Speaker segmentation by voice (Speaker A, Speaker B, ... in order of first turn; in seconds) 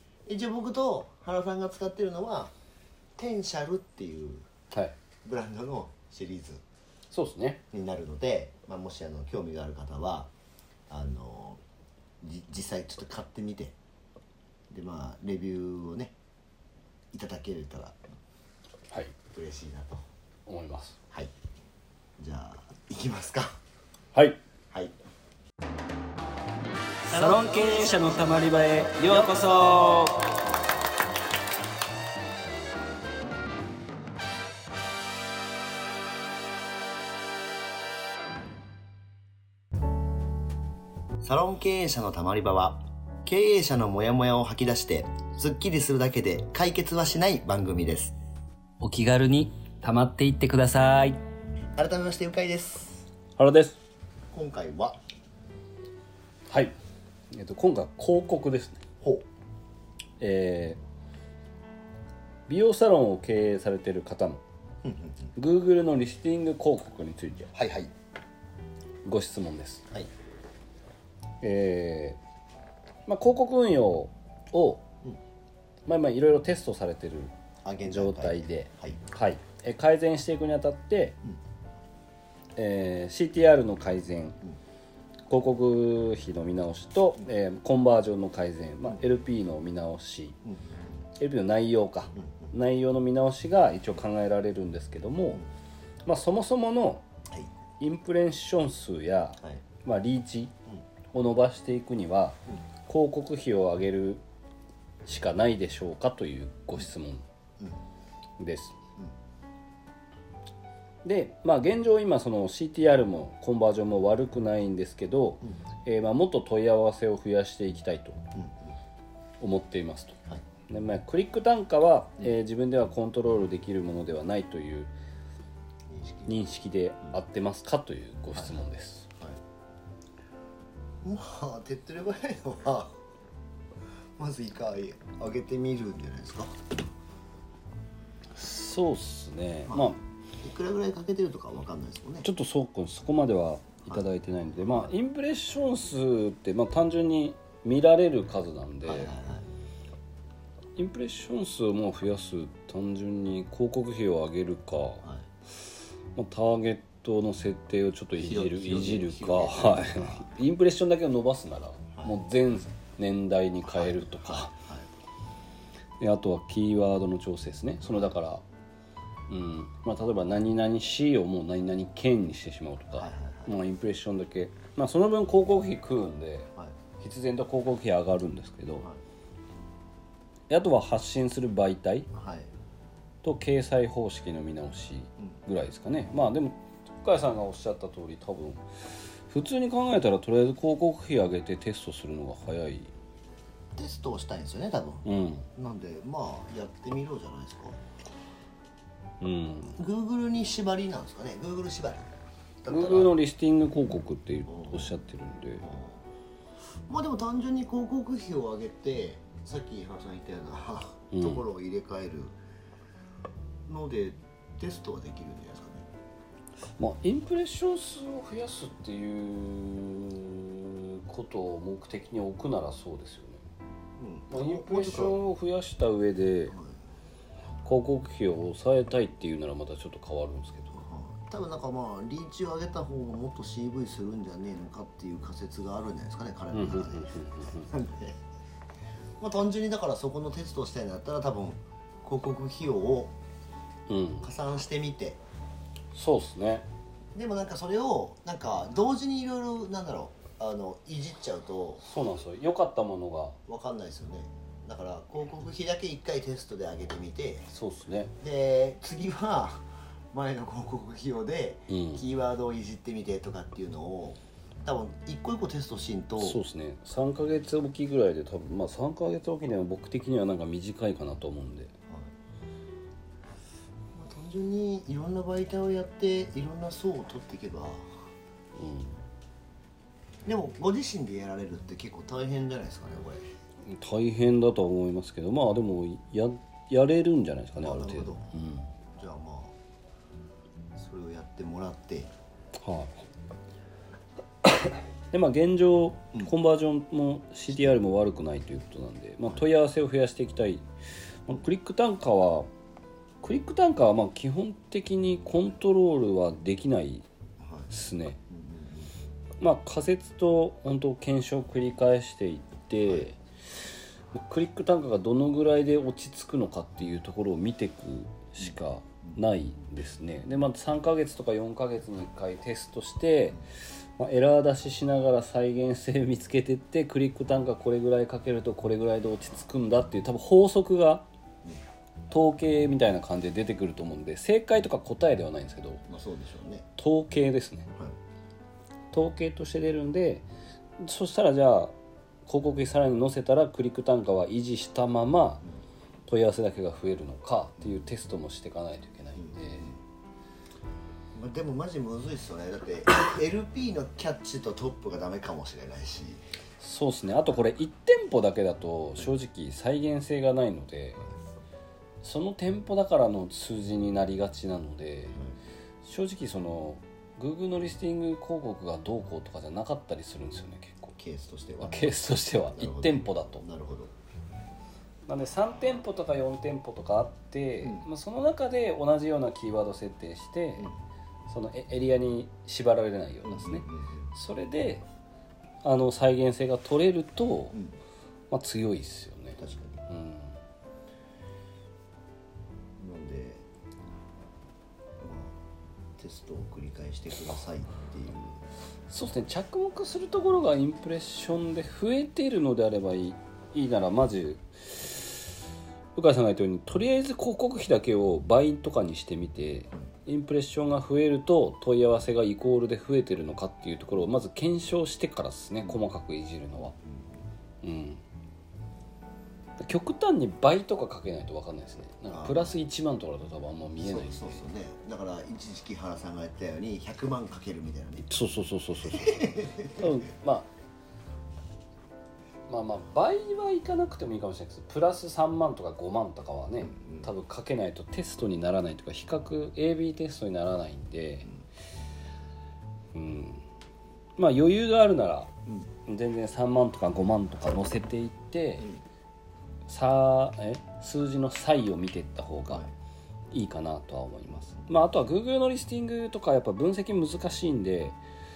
Speaker A: 0.3-2.5, 3.2-4.5, 5.2-6.6, 7.7-10.3, 10.9-11.6, 12.2-13.8, 14.7-16.1, 17.1-18.0, 19.3-20.0, 22.2-23.6, 41.2-48.1, 51.8-53.1, 54.3-55.0, 59.0-59.3, 64.8-65.3, 67.5-67.9, 77.6-79.0, 90.5-91.0, 92.1-92.5, 118.3-118.8, 125.9-126.5, 131.0-132.9, 134.2-136.7, 139.7-142.3, 148.8-149.5, 158.2-160.3, 163.6-164.9, 173.0-173.6, 182.1-182.5, 193.8-197.8, 199.7-202.1, 202.6-203.2, 204.5-204.9, 205.6-206.0, 206.9-212.4, 213.7-215.8, 224.0-225.2, 226.5-226.8, 230.8-238.2, 239.2-243.1, 244.2-245.2, 247.2-251.8, 253.4-257.5, 258.2-266.4, 273.9-277.9, 280.3-283.3, 287.6-288.3, 289.0-289.6, 290.8-292.1, 307.4-307.7, 308.3-308.9, 318.4-319.2, 335.9-336.7, 349.2-349.8, 351.1-356.2, 371.0-373.9, 383.2-384.1, 389.4-389.9, 392.8-393.4, 395.0-395.4, 396.0-398.4, 416.9-417.1, 422.1-422.6, 423.8-428.1, 428.9-429.9, 436.6-437.1
Speaker B: 7.1-7.6, 20.5-21.0, 24.1-24.4, 27.1-30.4, 48.8-51.2, 53.4-53.8, 56.5-56.7, 57.3-58.8, 60.2-60.8, 62.5-64.4, 65.4-67.5, 69.0-69.8, 71.4-72.2, 73.1-74.8, 75.9-77.3, 77.8-81.2, 82.6-84.4, 85.3-90.4, 91.2-95.4, 96.1-97.0, 97.8-100.5, 101.1-104.2, 105.1-107.2, 108.4-108.7, 111.0-118.2, 119.4-120.2, 120.7-124.9, 126.3-129.1, 138.3-140.0, 142.2-149.1, 150.8-155.0, 156.2-164.5, 166.0-168.4, 169.3-176.5, 177.0-178.9, 180.5-182.1, 183.2-188.6, 189.3-192.9, 195.1-195.5, 199.2-199.8, 202.7-205.7, 211.1-211.4, 216.8-223.4, 224.3-226.5, 227.7-230.8, 236.5-237.7, 243.9-244.3, 245.9-246.7, 251.8-253.4, 257.5-258.1, 261.7-262.1, 266.2-271.7, 278.6-279.0, 283.6-288.7, 292.6-293.0, 294.4-300.7, 301.3-302.5, 303.2-307.1, 307.7-308.2, 309.4-313.2, 314.1-323.4, 324.0-331.1, 332.1-335.9, 336.8-337.7, 338.9-340.3, 340.8-341.7, 342.3-345.4, 346.1-349.7, 356.6-361.0, 362.0-365.2, 365.8-370.9, 371.6-373.4, 375.1-380.7, 381.3-384.9, 385.6-387.6, 388.3-390.4, 398.9-405.2, 406.0-416.7, 417.6-418.0, 419.6-424.4, 428.1-430.5, 432.5-441.3, 442.9-443.4, 444.2-445.3, 445.9-448.7, 449.7-452.7, 453.3-458.0